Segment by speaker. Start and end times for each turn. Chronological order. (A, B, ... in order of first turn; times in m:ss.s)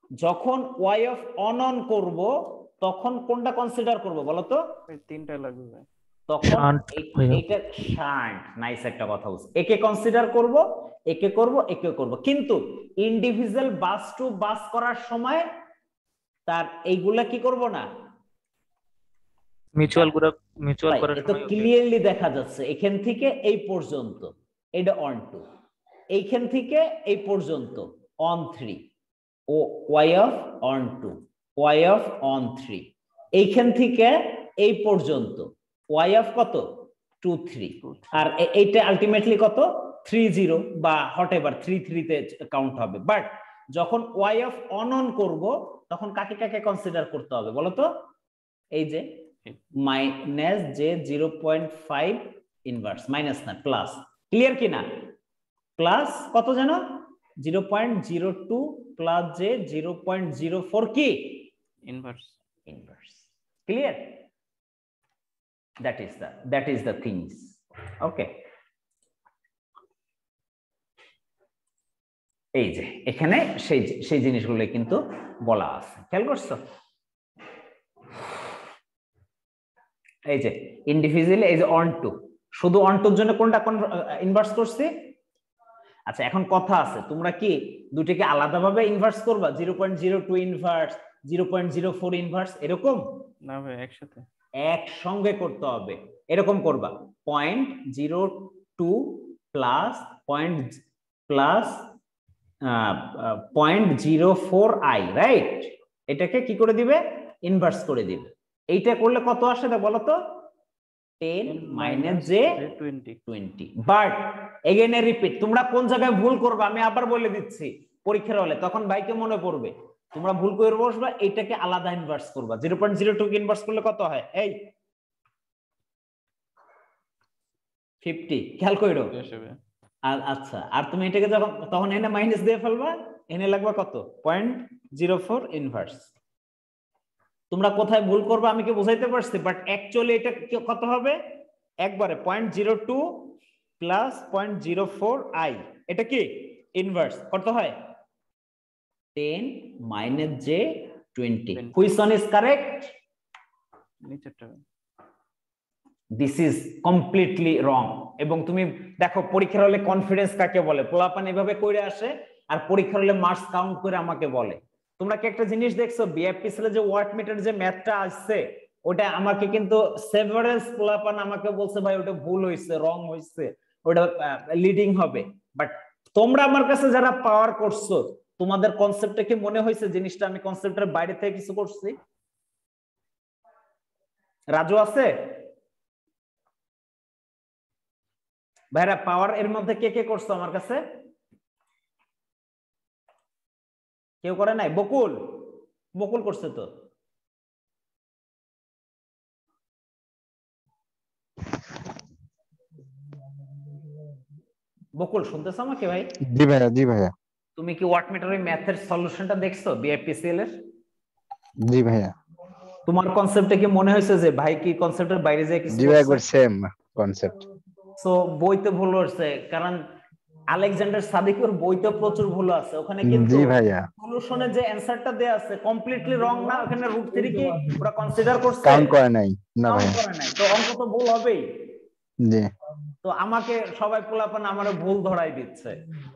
0:00.2-0:04.6 A
0:04.9-0:05.9 B
0:06.3-0:15.4 A
0:06.4-0:07.4 C
0:16.5-0:17.9 A
0:19.8-0:21.7 C
0:19.9-0:20.2 A
0:20.9-0:25.4 A
0:26.1-0:28.8 A
0:29.5-0:36.7 A
0:37.2-0:47.9 A
0:37.8-0:38.3 B
0:48.7-0:49.0 A
0:49.8-0:55.0 A
0:55.8-1:01.5 A
1:01.8-1:02.4 B
1:02.7-1:04.2 A
1:05.8-1:08.3 A
1:12.6-1:16.6 A
1:20.3-1:24.9 A
1:26.1-1:33.0 A
1:33.4-1:34.2 B
1:34.7-1:40.8 A
1:41.3-1:41.8 A
1:42.7-1:50.2 A
1:51.2-1:52.5 A
1:51.4-1:53.2 B
1:53.3-2:04.6 A
2:08.0-2:09.1 A
2:09.1-2:09.6 B
2:10.1-2:16.1 A
2:17.5-2:21.2 A
2:21.8-2:27.8 A
2:29.1-2:32.9 A
2:31.5-2:31.8 B
2:34.0-2:34.6 B
2:36.2-3:02.0 A
3:04.6-3:05.1 A
3:08.7-3:10.8 A
3:14.2-3:16.7 A
3:25.0-3:26.1 A
3:26.2-3:27.1 D
3:27.6-3:30.6 A
3:31.6-3:32.1 D
3:32.9-3:36.2 A
3:35.7-3:37.4 D
3:38.0-3:39.8 A
3:40.5-3:49.0 A
3:43.0-3:43.9 D
3:48.6-3:50.0 D
3:49.7-3:51.6 A
3:52.2-3:52.5 D
3:53.0-3:55.8 A